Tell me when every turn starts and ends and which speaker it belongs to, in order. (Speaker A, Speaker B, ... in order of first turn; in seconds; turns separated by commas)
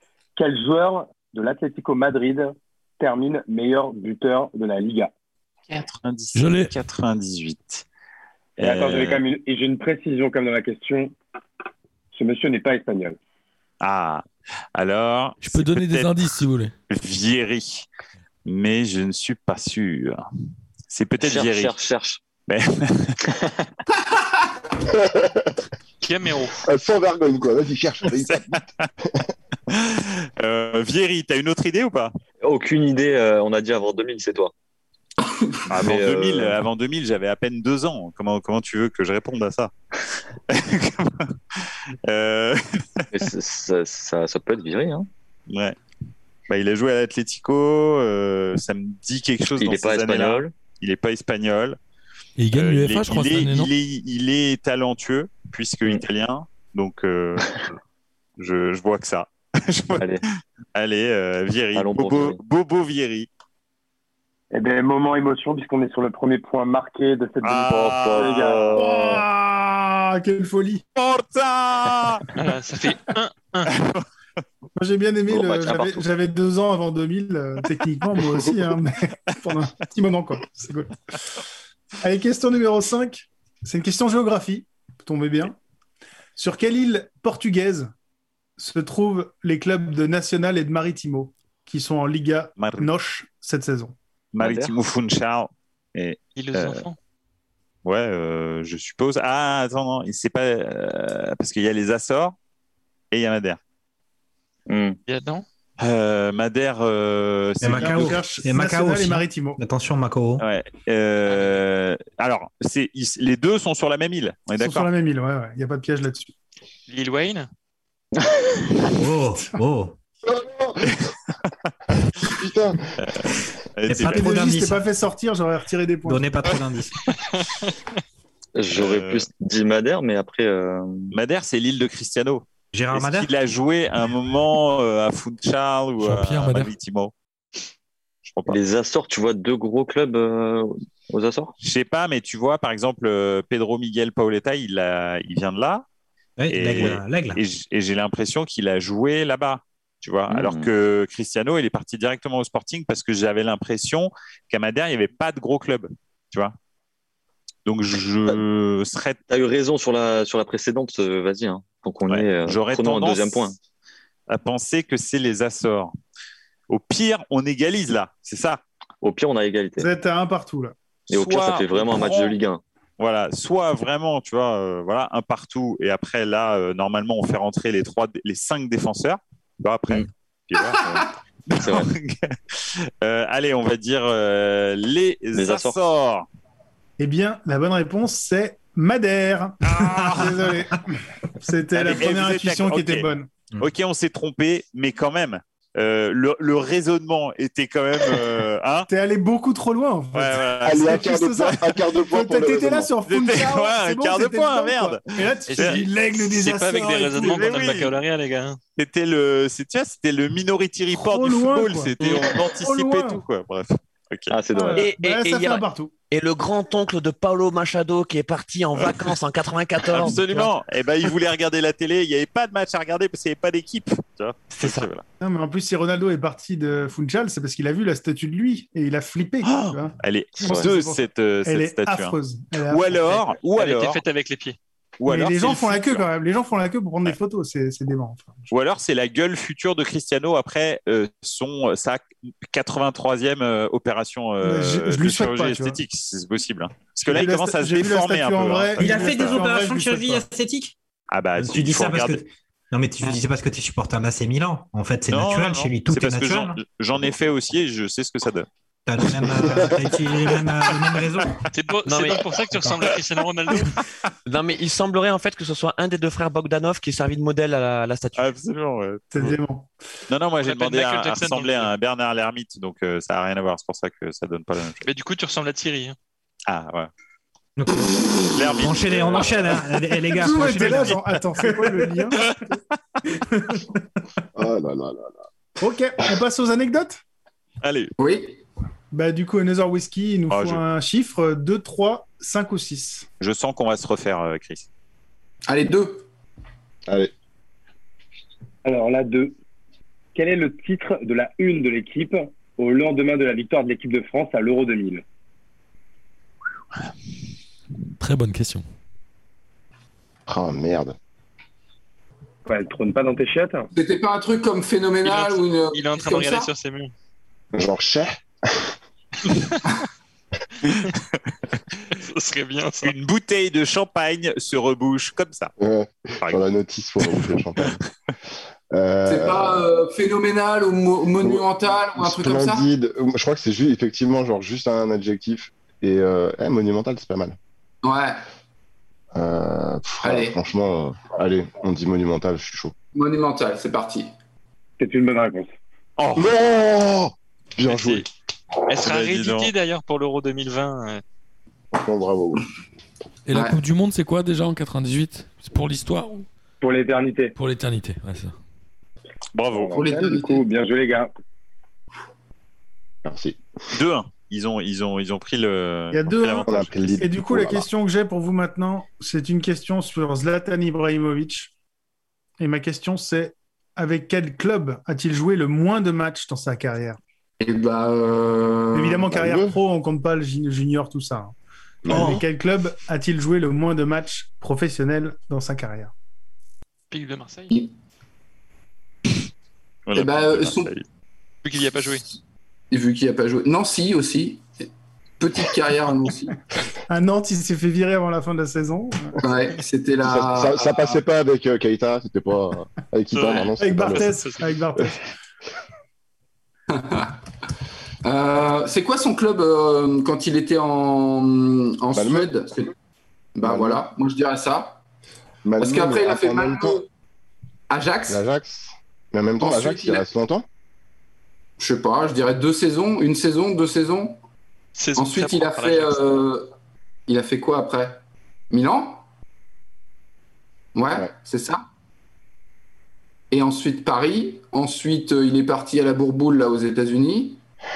Speaker A: 0.3-5.1, Speaker B: 5.7-7.8, Speaker C: 6.3-6.7, Speaker B: 8.6-9.2, Speaker A: 8.6-11.1, Speaker A: 12.1-13.2, Speaker B: 13.8-16.1, Speaker C: 15.4-16.7, Speaker B: 16.9-17.9, Speaker B: 18.4-20.1, Speaker B: 20.9-21.8, Speaker D: 21.2-22.2, Speaker B: 22.5-23.2, Speaker D: 23.3-23.5, Speaker E: 24.8-25.6, Speaker F: 26.0-26.6, Speaker E: 26.6-29.3, Speaker B: 28.2-28.9, Speaker B: 29.7-32.1, Speaker D: 32.4-34.5, Speaker G: 35.2-35.6, Speaker B: 35.7-39.7, Speaker D: 35.8-36.6, Speaker B: 40.5-43.2, Speaker D: 43.1-45.1, Speaker B: 45.5-45.8, Speaker B: 46.5-51.8, Speaker D: 49.5-50.5, Speaker C: 52.4-53.7, Speaker B: 52.5-57.6, Speaker B: 58.4-60.2, Speaker D: 59.9-60.2, Speaker B: 60.7-63.3, Speaker D: 61.7-62.4, Speaker A: 64.5-68.7, Speaker B: 67.4-68.7, Speaker D: 67.7-69.0, Speaker H: 68.8-70.8, Speaker B: 71.0-72.3, Speaker F: 72.3-73.7, Speaker B: 73.7-74.0, Speaker H: 74.8-80.9, Speaker D: 75.3-76.0, Speaker H: 82.0-85.5, Speaker H: 86.3-87.9, Speaker H: 88.6-93.9, Speaker B: 92.6-92.9, Speaker B: 94.3-96.8, Speaker D: 94.4-94.7, Speaker F: 96.3-97.0, Speaker B: 97.8-102.3, Speaker B: 103.1-103.6, Speaker D: 104.7-105.0, Speaker F: 105.1-105.4, Speaker B: 105.8-108.2, Speaker I: 107.6-110.4, Speaker H: 107.7-109.6, Speaker B: 110.4-114.9, Speaker F: 111.3-111.6, Speaker H: 114.6-116.3, Speaker F: 116.9-117.5, Speaker I: 118.9-119.9, Speaker E: 120.2-121.0, Speaker E: 122.2-122.9, Speaker B: 123.0-124.3, Speaker I: 123.9-124.8, Speaker H: 124.0-126.3, Speaker I: 126.0-127.0, Speaker F: 127.1-127.8, Speaker D: 128.6-131.1, Speaker B: 128.7-129.3, Speaker B: 131.1-137.1, Speaker I: 132.7-133.3, Speaker C: 136.0-136.7, Speaker B: 138.2-138.6, Speaker D: 138.5-141.5, Speaker B: 141.6-145.8, Speaker I: 146.4-147.4, Speaker B: 146.5-156.5, Speaker D: 150.3-150.7, Speaker B: 157.7-159.2, Speaker D: 159.3-163.6, Speaker B: 162.1-163.5, Speaker B: 164.3-165.9, Speaker B: 166.7-168.6, Speaker D: 169.0-169.9, Speaker H: 169.8-170.7, Speaker B: 171.1-172.3, Speaker D: 171.1-172.6, Speaker B: 173.0-182.3, Speaker D: 181.5-181.9, Speaker B: 183.0-186.3, Speaker D: 185.3-185.8, Speaker H: 187.0-193.3, Speaker B: 189.6-190.5, Speaker B: 191.7-198.9, Speaker H: 198.9-207.7, Speaker B: 200.1-201.4, Speaker E: 200.6-202.9, Speaker B: 203.1-205.0, Speaker F: 205.5-208.6, Speaker B: 205.5-205.8, Speaker B: 207.2-207.9, Speaker B: 208.8-214.3, Speaker H: 210.9-213.2, Speaker J: 212.0-212.2, Speaker D: 214.3-214.9, Speaker H: 214.5-215.9, Speaker J: 214.8-220.5, Speaker B: 219.9-225.0, Speaker J: 224.5-224.9, Speaker H: 225.2-233.2, Speaker B: 229.4-232.2, Speaker B: 232.7-234.0, Speaker F: 233.5-234.6, Speaker B: 235.0-236.1, Speaker H: 235.1-238.5, Speaker B: 238.5-249.4, Speaker H: 244.4-245.8, Speaker H: 247.0-250.2, Speaker I: 248.8-250.7, Speaker B: 251.1-252.2, Speaker I: 251.4-256.6, Speaker B: 255.1-258.5, Speaker I: 258.9-261.4, Speaker F: 261.5-263.8, Speaker J: 261.9-262.2, Speaker J: 264.2-268.3, Speaker B: 268.2-269.4, Speaker H: 269.1-269.7, Speaker B: 270.1-274.8, Speaker F: 270.4-271.7, Speaker F: 274.8-275.9, Speaker B: 276.5-276.9, Speaker I: 277.6-281.9, Speaker B: 278.3-279.6, Speaker H: 280.1-282.3, Speaker H: 283.3-283.6, Speaker E: 284.3-285.2, Speaker H: 285.6-287.0, Speaker B: 287.6-287.9, Speaker G: 288.0-288.4, Speaker H: 288.9-293.1, Speaker B: 290.3-290.6, Speaker B: 293.2-294.6, Speaker G: 295.5-296.1, Speaker E: 296.9-297.1, Speaker A: 298.6-299.3, Speaker A: 300.1-305.0, Speaker C: 308.0-308.6, Speaker E: 310.3-310.9, Speaker A: 312.4-313.7, Speaker G: 313.7-316.5, Speaker F: 315.0-316.9, Speaker E: 317.5-318.7, Speaker B: 320.7-321.0, Speaker F: 321.9-322.9, Speaker B: 322.8-325.5, Speaker E: 325.6-327.8, Speaker E: 328.7-329.7, Speaker G: 329.1-332.6, Speaker E: 331.2-331.4, Speaker E: 332.0-337.4, Speaker G: 337.8-338.2, Speaker E: 339.1-342.7, Speaker G: 340.0-340.4, Speaker G: 342.9-344.1, Speaker A: 344.8-345.5, Speaker B: 346.0-346.3, Speaker E: 346.1-348.1, Speaker F: 347.6-348.1, Speaker F: 348.7-351.0, Speaker B: 348.8-349.5, Speaker E: 351.7-352.4, Speaker C: 353.3-356.2, Speaker G: 353.3-353.6, Speaker A: 356.6-357.3, Speaker C: 357.4-358.3, Speaker B: 359.3-359.8, Speaker A: 359.5-361.1, Speaker G: 359.8-360.4, Speaker E: 363.0-363.4, Speaker B: 363.7-367.0, Speaker H: 365.9-371.5, Speaker E: 366.4-367.6, Speaker H: 372.4-377.0, Speaker G: 377.4-379.1, Speaker H: 378.7-381.3, Speaker E: 379.1-379.6, Speaker E: 381.8-382.2, Speaker H: 381.9-385.9, Speaker F: 386.9-387.6, Speaker B: 389.9-390.8, Speaker G: 389.9-390.7, Speaker F: 391.4-392.0, Speaker G: 392.7-394.5, Speaker G: 395.2-396.4, Speaker H: 396.9-399.2, Speaker G: 399.2-401.0, Speaker E: 400.0-404.1, Speaker F: 403.1-404.6, Speaker H: 403.6-405.0, Speaker G: 406.7-407.2, Speaker G: 408.0-412.7, Speaker E: 411.9-412.3, Speaker G: 413.3-414.8, Speaker E: 413.4-413.8, Speaker E: 415.4-416.8, Speaker G: 415.6-416.9, Speaker G: 417.7-418.2, Speaker E: 418.1-420.4, Speaker G: 419.4-420.0, Speaker G: 421.6-424.2, Speaker F: 424.7-426.2, Speaker G: 424.9-426.4, Speaker G: 427.1-429.0, Speaker G: 430.7-431.6, Speaker G: 433.3-437.4